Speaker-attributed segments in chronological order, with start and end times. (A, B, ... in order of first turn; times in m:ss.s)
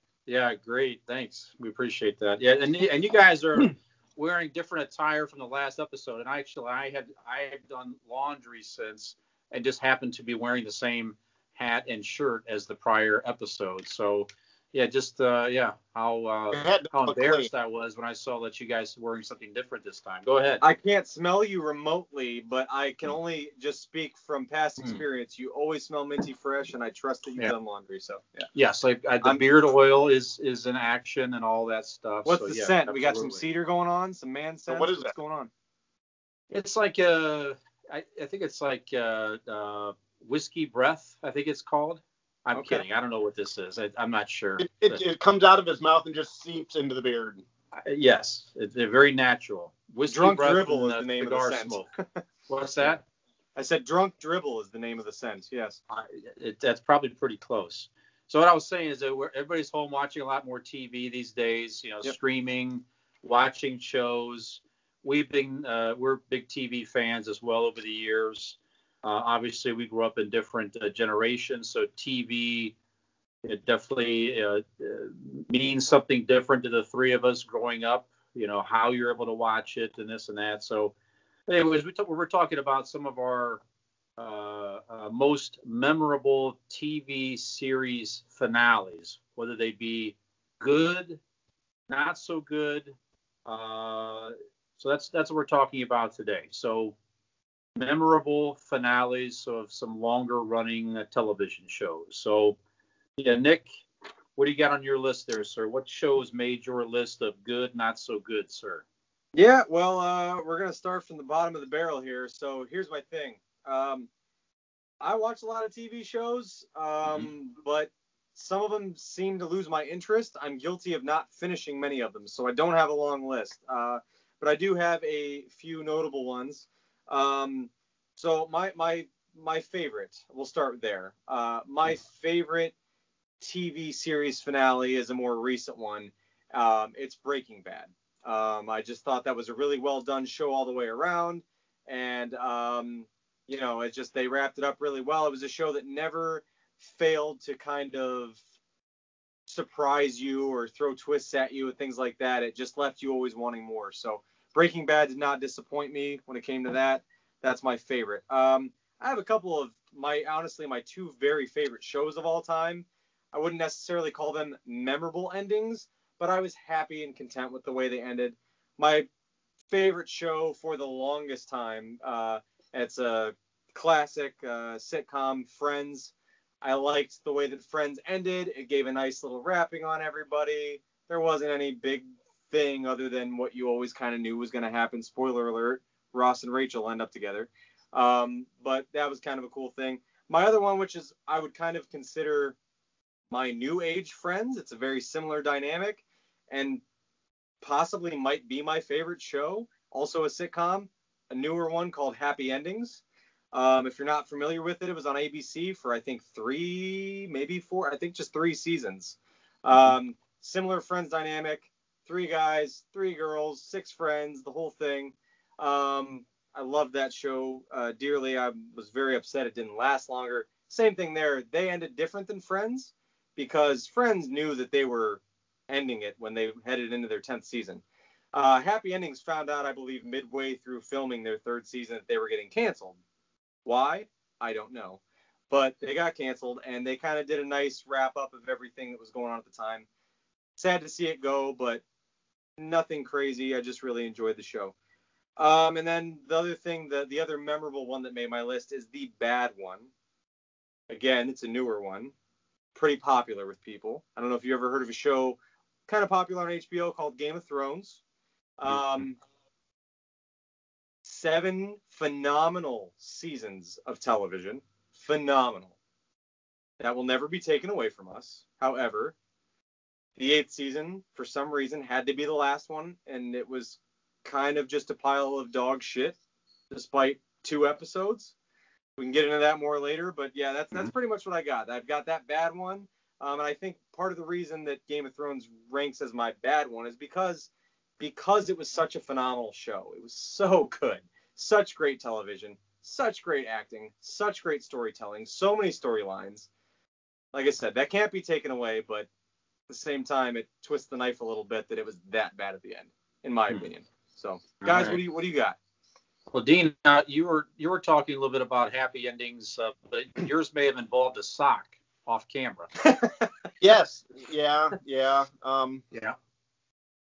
0:00.3-0:20.6 A
0:16.5-0:17.5 B
0:20.6-0:28.5 C
0:28.5-0:33.4 A
0:32.2-0:35.5 C
0:34.7-0:35.1 B
0:36.5-0:45.0 A
0:42.5-0:42.8 C
0:44.6-0:47.4 B
0:47.8-0:51.8 A
0:50.1-0:52.2 C
0:52.5-0:53.0 A
0:53.6-0:55.8 C
0:55.9-1:12.7 A
1:13.4-1:20.9 A
1:21.5-1:23.6 A
1:24.2-1:31.2 A
1:31.9-1:37.0 A
1:37.8-1:42.6 A
1:43.2-1:43.7 A
1:44.4-1:48.8 A
1:49.3-1:54.1 C
1:55.0-2:12.7 C
2:13.4-2:28.4 C
2:29.5-2:49.1 C
2:49.7-3:12.6 C
3:13.3-3:16.8 C
3:17.6-3:23.0 C
3:23.5-3:47.8 C
3:48.3-3:53.0 C
3:53.6-3:59.8 C
4:00.6-4:01.8 C
4:02.6-4:04.7 C
4:05.4-4:09.9 C
4:10.9-4:12.1 C
4:12.8-4:18.0 C
4:18.6-4:19.2 C
4:21.0-4:25.7 C
4:26.8-4:29.1 C
4:30.2-4:36.2 C
4:36.7-4:38.3 C
4:39.0-4:56.5 C
4:57.3-4:59.1 C
4:59.7-5:05.6 C
5:04.6-5:05.0 A
5:06.3-5:12.7 A
5:12.8-5:13.2 C
5:13.6-5:15.8 B